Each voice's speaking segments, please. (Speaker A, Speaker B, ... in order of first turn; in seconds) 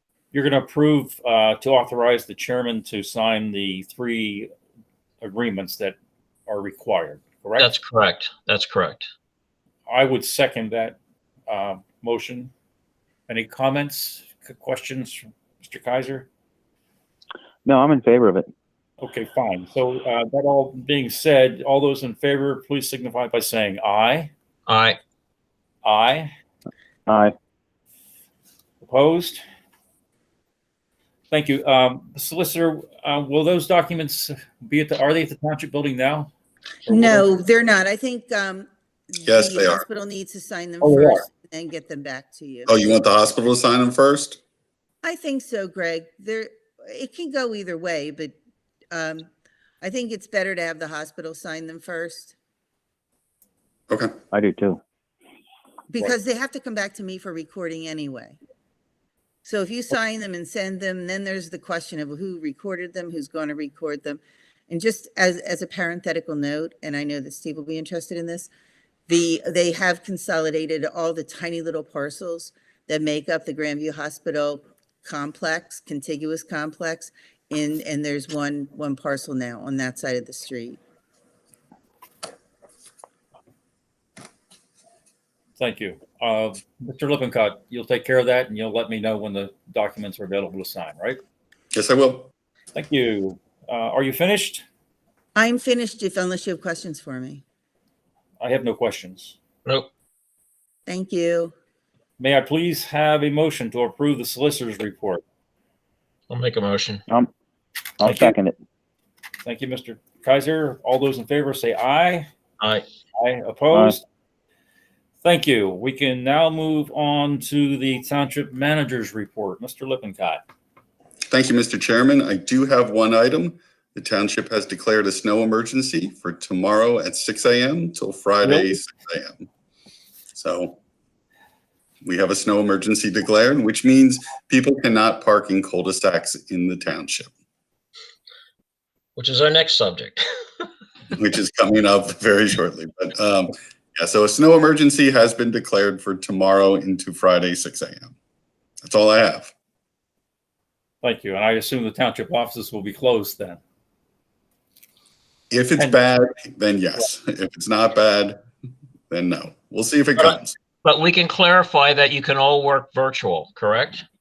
Speaker A: 0.3-4.5, 5.2-6.0, 6.5-7.7, 9.9-11.0, 11.5-12.5, 13.3-16.3, 19.0-24.3, 25.8-26.3, 28.8-29.4, 31.3-36.3, 36.9-37.3, 40.8-41.2, 85.6-91.2, 92.8-94.6, 98.4-99.4, 102.2-105.2, 108.0-108.4, 109.4-112.3, 113.2-114.0, 115.2-120.4, 128.4-128.8, 151.0-153.6, 155.8-156.0
Speaker B: 7.6-9.1, 24.7-25.0, 106.3-107.0, 112.6-112.8, 139.2-140.7, 160.2-164.0
Speaker C: 17.6-18.5, 27.1-27.4, 54.3-54.8, 108.0-108.6, 113.7-114.0
Speaker D: 36.9-42.7, 45.0-48.3, 48.9-49.3, 49.8-52.3, 55.9-58.4, 59.5-68.5, 69.1-80.8, 95.3-97.4, 100.9-101.5
Speaker E: 39.2-39.8, 42.7-44.4, 91.7-92.3, 121.3-129.5, 130.3-130.8, 132.0-137.3, 141.2-148.1, 148.8-149.5, 155.5-158.4, 159.1-160.5